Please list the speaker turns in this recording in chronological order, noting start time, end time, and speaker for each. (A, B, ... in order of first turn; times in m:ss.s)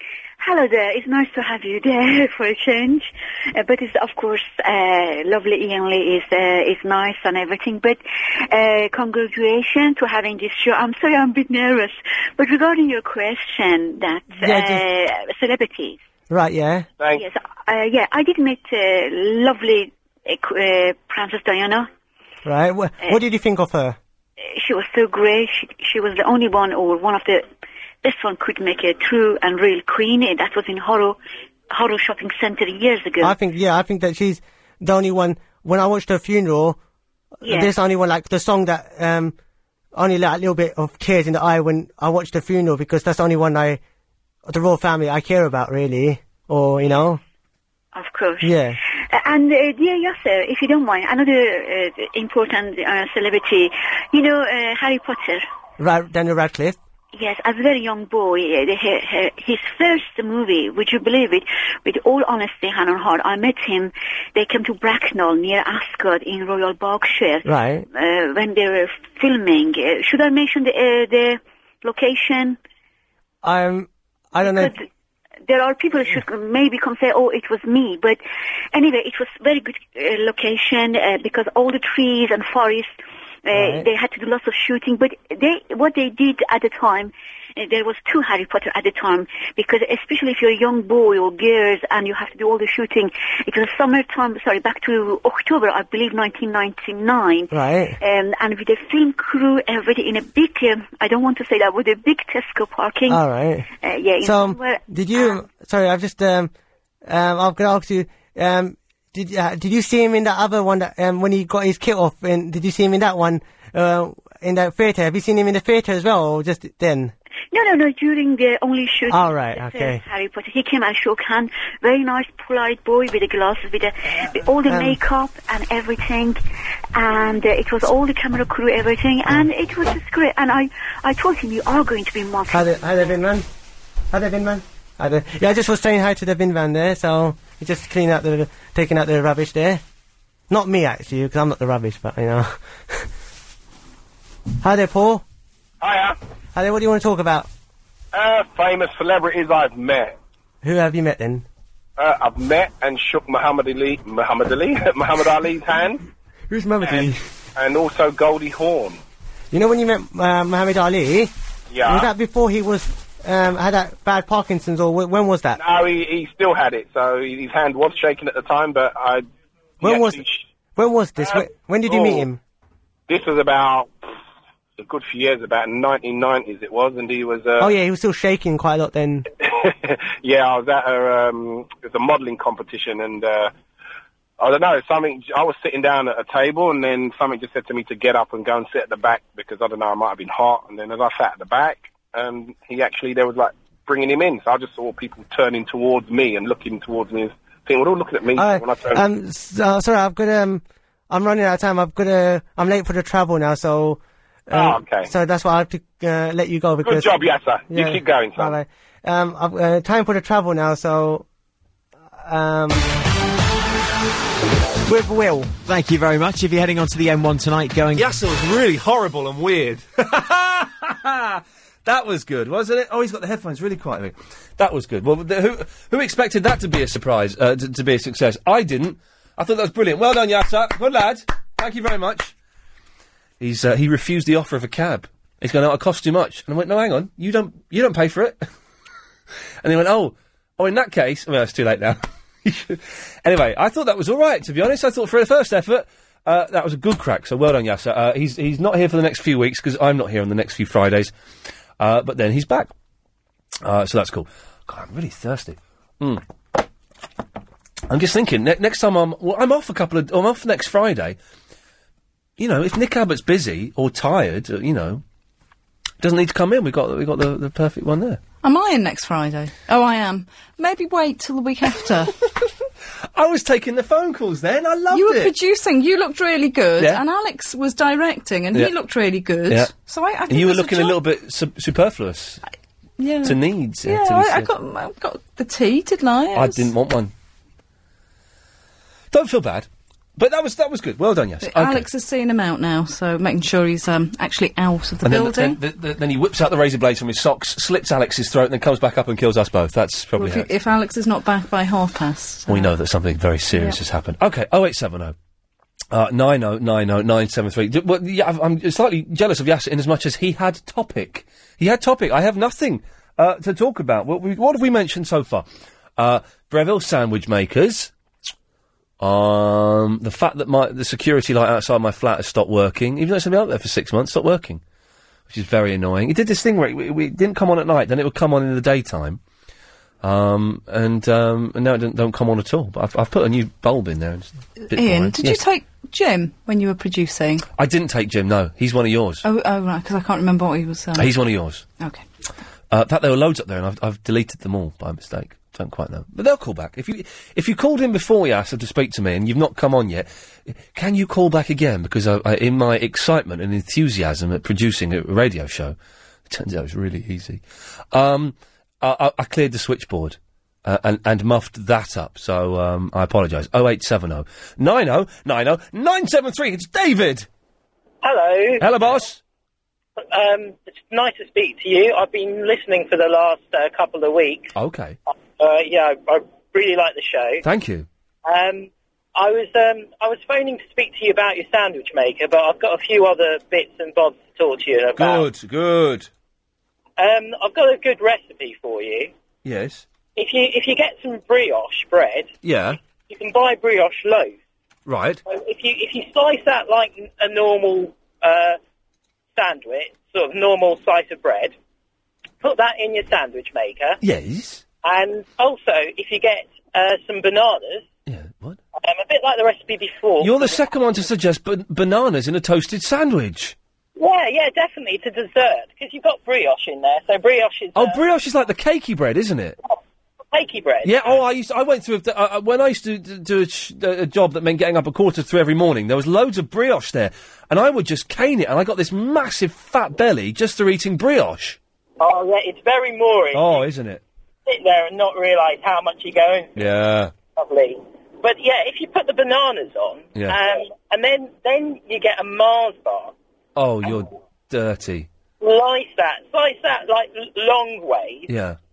0:00.4-0:16.0 A
0:14.4-0:14.8 B
0:16.3-0:16.9 B
0:17.2-0:21.9 A
0:22.4-0:24.0 B
0:24.4-0:27.4 A
0:28.0-0:31.2 A
0:31.7-0:33.4 A
0:33.2-0:36.8 B
0:37.4-0:39.3 B
0:37.4-0:37.7 A
0:39.9-0:43.8 B
0:44.5-0:47.2 B
0:47.9-0:55.4 A
0:48.4-0:48.8 B
0:55.8-0:56.8 B
0:57.1-1:12.6 A
1:07.4-1:07.8 B
1:13.4-1:14.7 B
1:14.4-1:14.9 A
1:15.5-1:18.2 A
1:18.7-1:22.9 A
1:23.4-1:43.2 A
1:23.5-1:23.8 B
1:37.5-1:38.0 B
1:43.1-1:43.7 B
1:43.8-1:45.4 A
1:44.2-1:46.5 B
1:47.0-1:57.1 B
1:57.5-2:06.4 A
1:59.1-2:00.0 B
2:04.7-2:05.0 B
2:06.9-2:12.8 A
2:12.5-2:13.4 B
2:14.1-2:19.8 B
2:20.5-2:23.1 B
2:24.6-2:25.2 B
2:26.5-2:27.5 B
2:28.2-2:30.1 C
2:30.6-2:31.4 B
2:32.0-2:35.9 C
2:36.5-2:37.2 B
2:37.6-2:39.0 C
2:39.5-2:41.3 B
2:41.8-2:45.6 B
2:45.8-2:49.2 C
2:49.8-2:50.2 B
2:50.8-2:52.4 B
2:53.1-2:53.9 C
2:54.8-2:57.5 C
2:57.6-2:59.2 B
3:00.2-3:03.4 C
3:04.4-3:18.8 C
3:18.3-3:31.2 B
3:24.7-3:25.0 C
3:27.0-3:28.4 C
3:32.2-3:32.9 B
3:34.9-3:35.3 B
3:35.4-3:38.1 D
3:37.9-3:52.3 E
3:53.4-3:58.4 E
3:59.6-4:11.1 E
4:11.8-4:12.7 E
4:13.6-4:16.2 E
4:17.9-4:21.2 E
4:22.4-4:25.0 E
4:26.0-4:28.2 E
4:28.4-4:32.1 F
4:33.1-4:35.3 E
4:34.9-4:41.0 F
4:36.8-4:37.0 E
4:39.5-4:39.7 E
4:40.3-4:42.4 E
4:43.0-4:46.7 F
4:43.2-4:44.5 E
4:46.3-4:47.1 E
4:49.1-4:51.9 E
4:51.4-4:55.6 F
4:55.0-5:00.5 E
5:00.1-5:02.7 F
5:02.5-5:05.1 E
5:03.5-5:03.8 F
5:05.9-5:15.4 E
5:16.0-5:17.9 E
5:19.0-5:24.6 E
5:25.3-5:29.2 E
5:30.0-5:35.4 E
5:34.7-5:37.5 F
5:37.6-5:39.2 E
5:39.2-5:41.1 F
5:40.9-5:41.6 E
5:42.7-5:55.8 E
5:56.3-6:07.3 E
6:08.0-6:08.6 G
6:08.6-6:09.2 E
6:10.0-6:14.5 G
6:14.5-6:15.0 E
6:15.4-6:17.4 G
6:17.4-6:17.9 E
6:18.2-6:25.2 G
6:25.0-6:26.1 E
6:27.0-6:29.1 G
6:29.4-6:29.8 E
6:30.2-6:32.3 G
6:32.4-6:32.8 E
6:33.1-6:34.4 G
6:34.8-6:35.2 E
6:35.3-6:38.6 G
6:39.3-6:41.5 G
6:42.4-6:44.0 G
6:44.0-6:44.6 E
6:44.8-6:47.9 G
6:48.1-6:48.6 E
6:48.8-6:50.6 G
6:50.2-6:53.6 E
6:54.0-6:58.0 G
6:57.7-6:59.6 E
7:00.3-7:01.2 G
7:00.8-7:11.6 E
7:12.0-7:13.6 G
7:13.3-7:14.0 E
7:14.4-7:16.6 G
7:16.6-7:17.1 E
7:17.4-7:23.1 G
7:23.6-7:25.1 E
7:25.4-7:28.3 G
7:28.3-7:28.6 E